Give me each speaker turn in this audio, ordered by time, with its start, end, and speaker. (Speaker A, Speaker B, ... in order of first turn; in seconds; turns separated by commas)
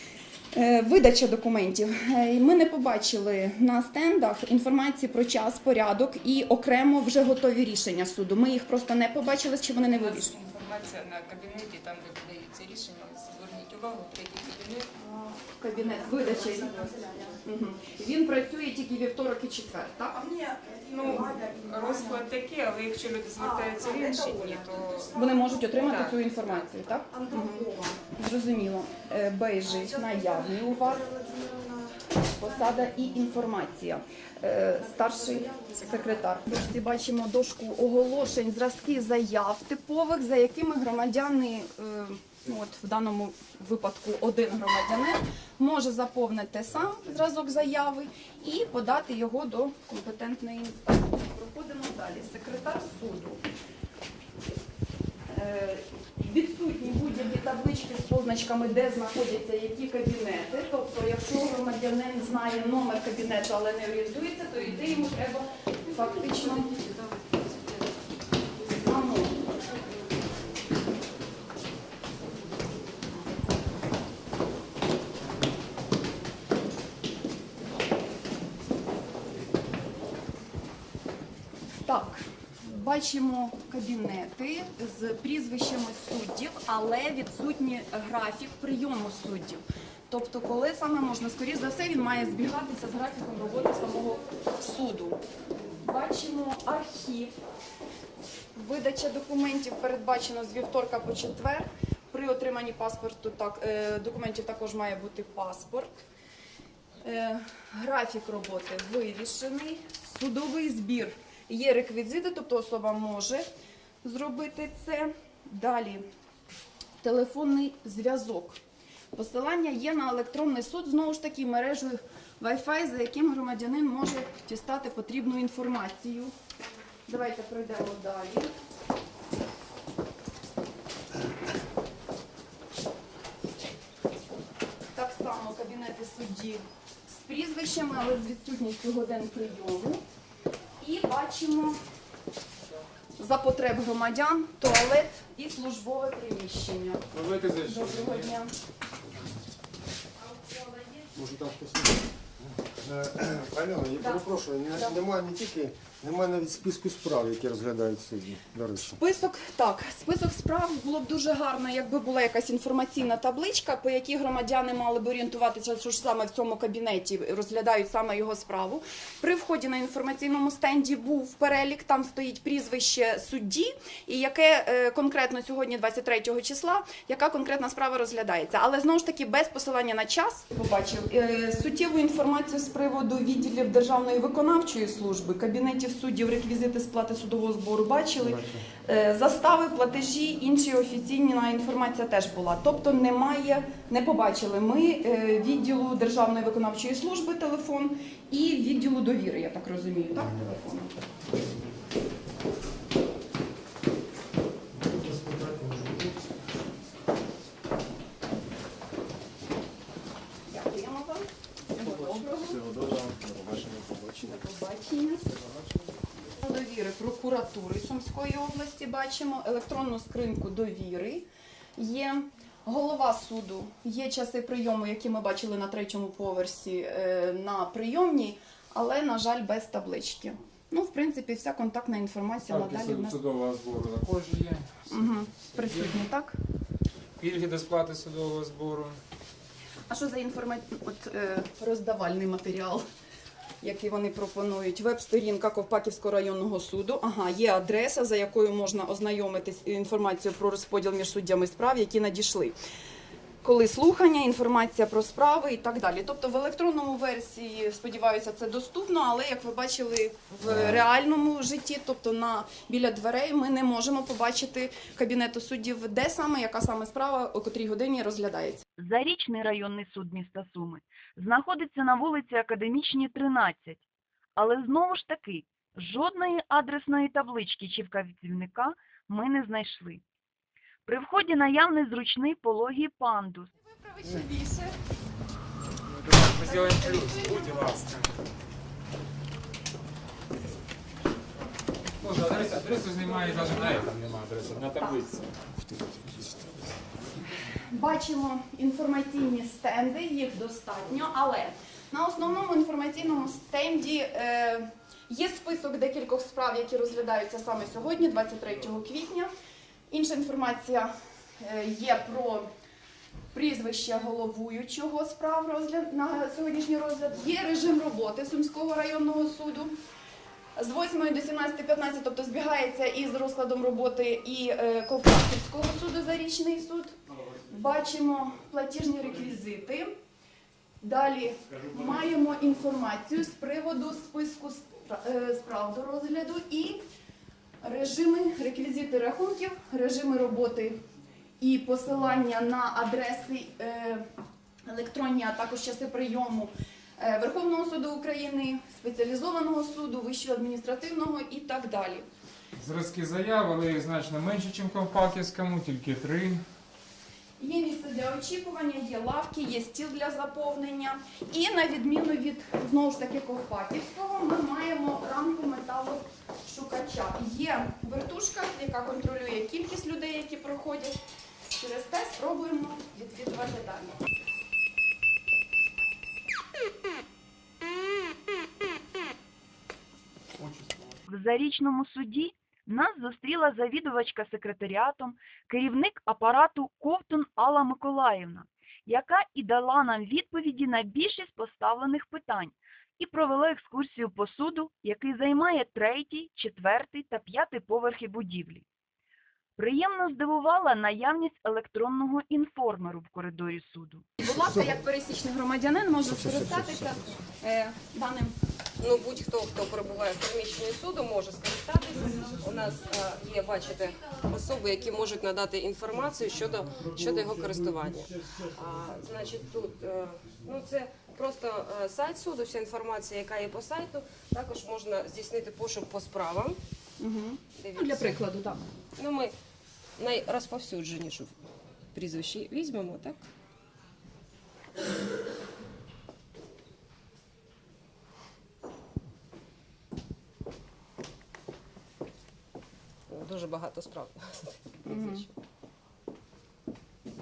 Speaker A: 0.5-10.3, Speaker B: 9.8-14.9, Speaker A: 15.0-16.9, Speaker B: 15.9-17.4, Speaker A: 17.4-22.2, Speaker B: 20.3-26.6, Speaker A: 23.4-23.7, Speaker C: 23.9-25.1, Speaker A: 25.1-31.2, Speaker B: 27.2-27.9, Speaker A: 32.4-53.4, Speaker A: 55.3-66.8, Speaker A: 68.8-69.5, Speaker A: 81.9-95.2, Speaker A: 95.8-97.4, Speaker A: 98.6-106.0, Speaker A: 107.0-113.5, Speaker A: 114.0-116.0, Speaker A: 117.0-118.6, Speaker A: 119.1-126.3, Speaker A: 127.1-128.5, Speaker A: 134.9-140.0, Speaker A: 140.8-141.8, Speaker A: 143.2-147.0, Speaker D: 147.1-148.3, Speaker A: 147.6-148.5, Speaker E: 151.2-159.0, Speaker A: 154.0-155.0, Speaker A: 158.9-200.9, Speaker E: 188.2-188.7, Speaker E: 204.8-206.2, Speaker A: 210.5-212.6, Speaker E: 212.3-214.4, Speaker A: 214.2-215.3, Speaker A: 216.4-221.3, Speaker A: 221.8-233.2, Speaker D: 232.5-236.0, Speaker A: 234.9-236.4, Speaker D: 237.2-239.0, Speaker A: 239.9-242.8, Speaker A: 243.6-252.6, Speaker A: 253.4-268.6, Speaker F: 268.8-273.8, Speaker F: 274.4-280.0, Speaker F: 280.9-283.5, Speaker A: 283.6-284.8, Speaker D: 285.8-288.2, Speaker A: 286.3-287.7, Speaker D: 292.0-295.3, Speaker A: 293.1-293.7, Speaker A: 297.5-309.3, Speaker A: 309.9-312.5, Speaker A: 313.3-319.7, Speaker A: 320.6-326.9, Speaker A: 327.5-329.9, Speaker A: 330.8-336.8, Speaker A: 337.6-340.8, Speaker A: 341.4-344.1, Speaker A: 344.7-352.1, Speaker D: 352.5-356.4, Speaker A: 357.4-374.0, Speaker D: 380.4-381.0, Speaker F: 381.1-398.6, Speaker F: 399.6-404.1, Speaker A: 404.2-408.4, Speaker E: 404.4-404.7, Speaker E: 406.0-407.1, Speaker C: 408.8-426.6, Speaker A: 427.0-428.6, Speaker C: 427.6-428.2, Speaker C: 429.0-429.4, Speaker C: 430.0-431.4, Speaker C: 431.9-433.2, Speaker C: 443.1-445.3, Speaker A: 444.9-445.3